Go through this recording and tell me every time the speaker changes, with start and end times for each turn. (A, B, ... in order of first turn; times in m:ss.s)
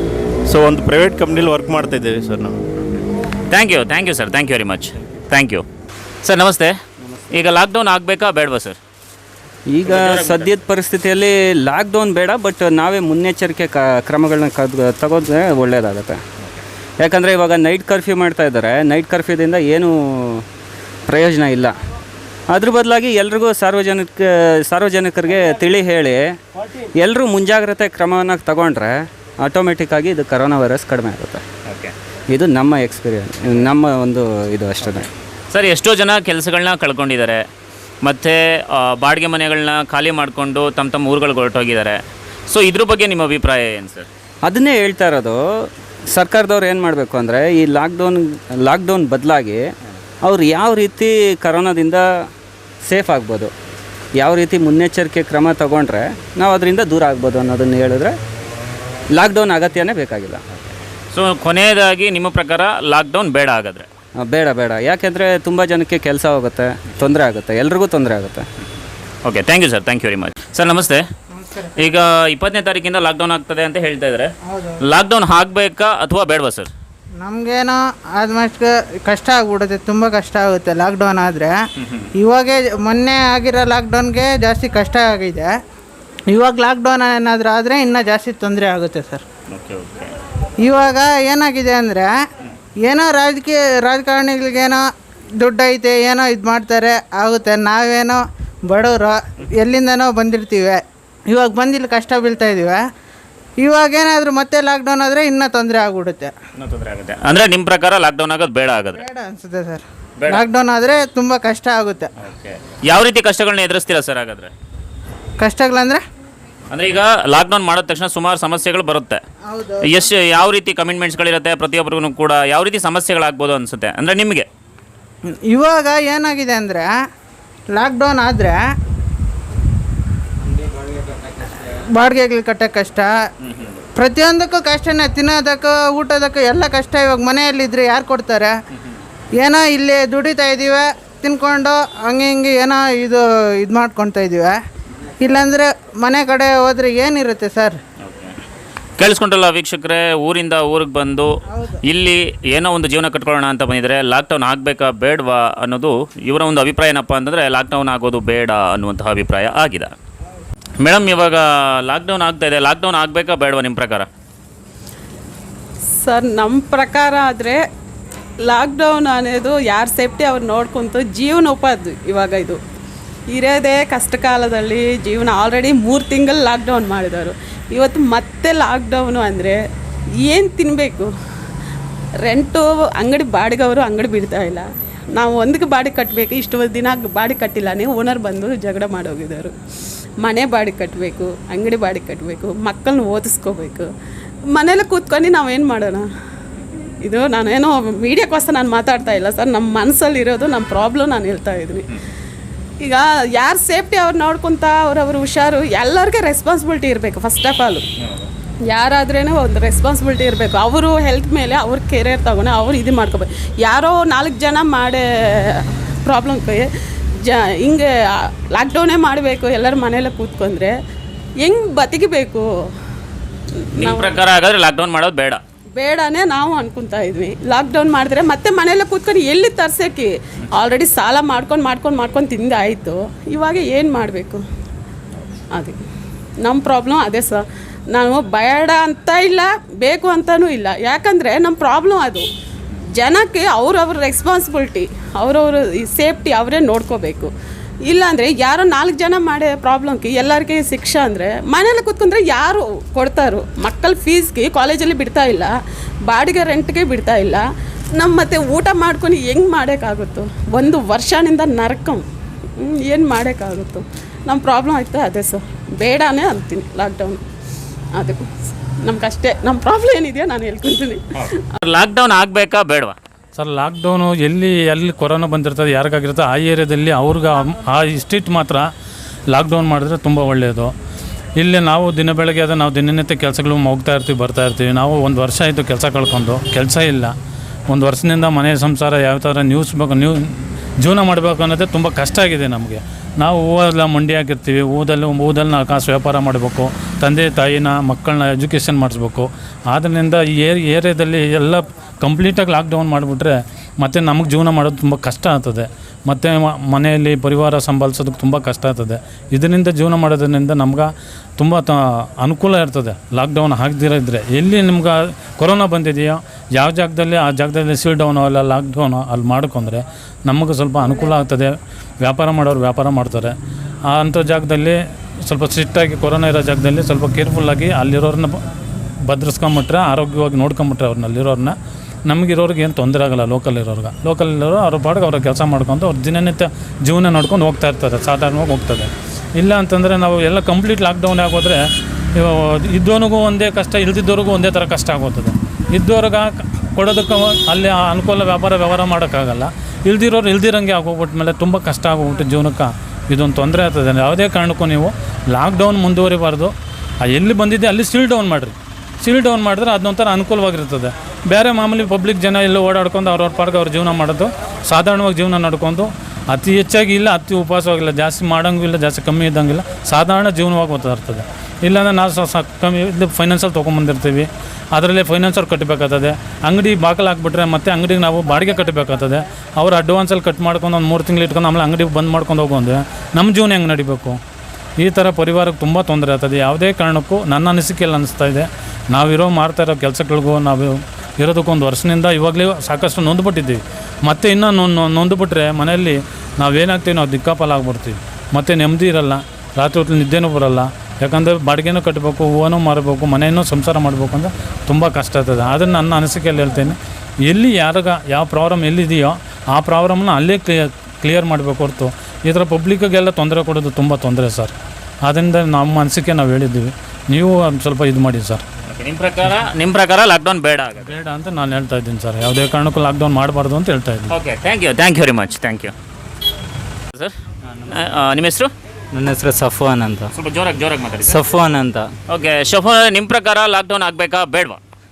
0:00.5-0:02.6 A
0:03.5-0:05.6 B
0:06.2-0:06.7 B
0:07.3-0:08.8 B
0:09.7-0:16.2 C
0:09.8-0:10.5 B
0:17.0-0:20.4 C
0:21.1-0:21.7 C
0:22.5-0:26.4 C
0:27.0-0:31.4 C
0:31.6-0:31.9 B
0:32.3-0:35.1 C
0:35.5-0:37.4 B
0:38.0-0:44.1 B
0:44.4-0:49.7 C
0:50.2-0:52.2 C
0:52.8-0:53.5 C
0:54.2-0:58.2 C
0:59.1-1:00.4 C
1:01.1-1:03.9 B
1:04.2-1:08.4 C
1:09.2-1:11.0 B
1:11.4-1:11.7 D
1:11.8-1:14.3 B
1:14.5-1:14.8 D
1:14.8-1:16.7 B
1:17.2-1:21.6 D
1:21.8-1:22.1 B
1:22.2-1:25.5 D
1:26.3-1:29.2 D
1:29.5-1:30.1 B
1:30.6-1:32.1 D
1:32.8-1:34.8 D
1:35.4-1:42.8 D
1:43.6-1:46.3 D
1:46.6-1:49.0 B
1:48.9-1:52.1 D
1:50.2-1:50.4 B
1:52.2-1:54.5 B
1:55.4-1:56.0 D
1:56.7-1:59.2 B
1:59.4-2:00.0 D
1:59.8-2:04.5 B
2:05.3-2:06.9 D
2:07.7-2:08.6 D
2:11.3-2:13.1 D
2:14.0-2:18.5 D
2:19.4-2:24.6 D
2:25.2-2:27.8 D
2:28.0-2:28.3 B
2:29.0-2:31.3 B
2:31.5-2:31.8 D
2:31.8-2:39.9 B
2:40.8-2:44.1 B
2:46.0-2:47.6 E
2:48.4-2:52.6 E
2:53.3-2:59.6 E
3:00.2-3:01.1 E
3:02.2-3:09.5 E
3:10.2-3:13.9 E
3:14.5-3:16.0 E
3:17.0-3:21.8 E
3:22.8-3:27.8 E
3:28.7-3:36.6 E
3:37.2-3:37.9 E
3:38.5-3:40.7 E
3:41.4-3:42.4 E
3:43.6-3:44.2 E
3:43.8-3:45.4 B
3:45.8-3:54.4 E
3:56.4-3:57.4 E
3:57.9-4:02.2 E
4:03.0-4:07.3 E
4:07.9-4:15.5 E
4:16.1-4:17.4 E
4:18.0-4:22.0 E
4:22.6-4:27.2 E
4:28.0-4:28.2 E
4:28.8-4:31.0 E
4:31.2-4:32.9 B
4:33.4-4:38.7 F
4:39.3-4:40.7 F
4:41.4-4:47.1 F
4:47.7-4:50.3 F
4:50.8-5:10.9 F
5:11.4-5:21.5 F
5:22.0-5:23.3 F
5:23.9-5:24.8 F
5:25.3-5:28.4 F
5:29.1-5:31.5 F
5:32.1-5:41.6 F
5:42.2-5:56.5 F
5:57.0-6:24.2 F
6:24.8-6:46.8 F
6:47.3-6:54.5 F
6:55.0-6:58.4 F
6:58.7-7:00.9 B
7:00.8-7:04.1 F
7:04.1-7:05.7 B
7:07.7-7:08.5 B
7:08.9-7:10.1 G
7:10.1-7:11.2 B
7:11.0-7:11.9 G
7:12.1-7:14.6 B